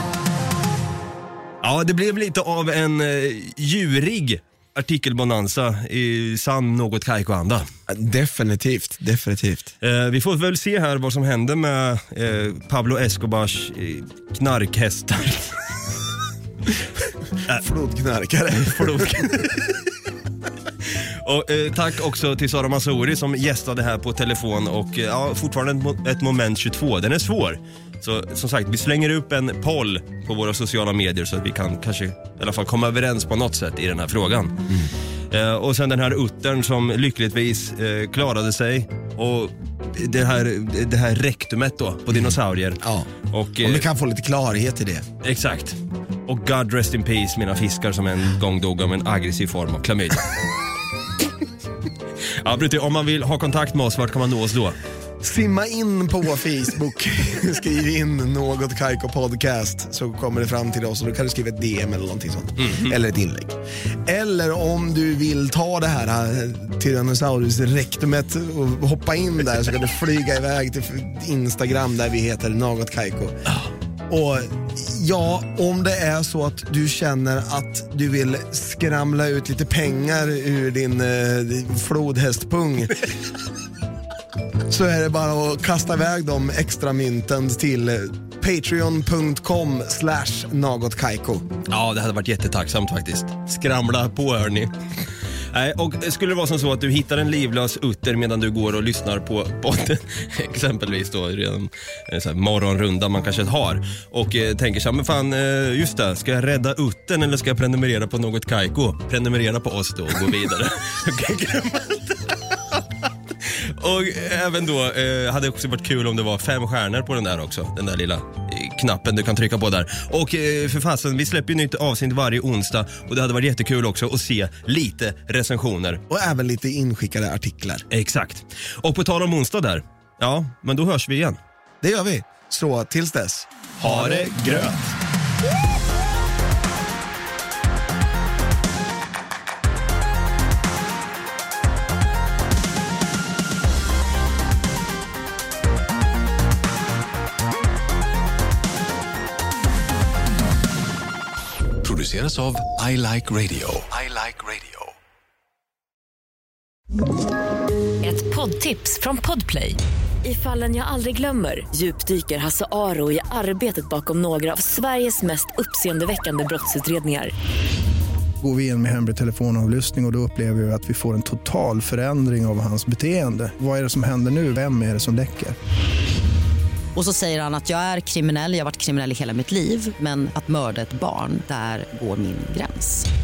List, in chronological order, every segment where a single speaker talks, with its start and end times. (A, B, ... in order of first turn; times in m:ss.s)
0:01.6-0:07.7 A
0:07.9-0:09.7 B
0:09.8-0:15.6 A
0:17.5-0:19.6 B
0:18.6-0:19.6 A
0:20.8-0:34.7 A
0:35.3-0:43.8 A
0:42.1-0:45.1 B
0:45.2-0:50.3 A
0:52.4-0:54.8 A
0:55.2-1:13.5 B
1:02.6-1:03.0 A
1:14.1-1:23.2 B
1:24.7-1:31.5 B
1:31.7-1:34.7 A
1:35.5-1:52.4 A
1:53.4-2:06.0 A
2:06.1-2:07.9 B
2:07.9-2:11.4 A
2:11.8-2:14.5 B
2:13.8-2:14.9 A
2:31.8-2:35.0 C
2:38.0-2:47.3 D
2:48.4-2:55.6 E
2:57.0-3:03.1 F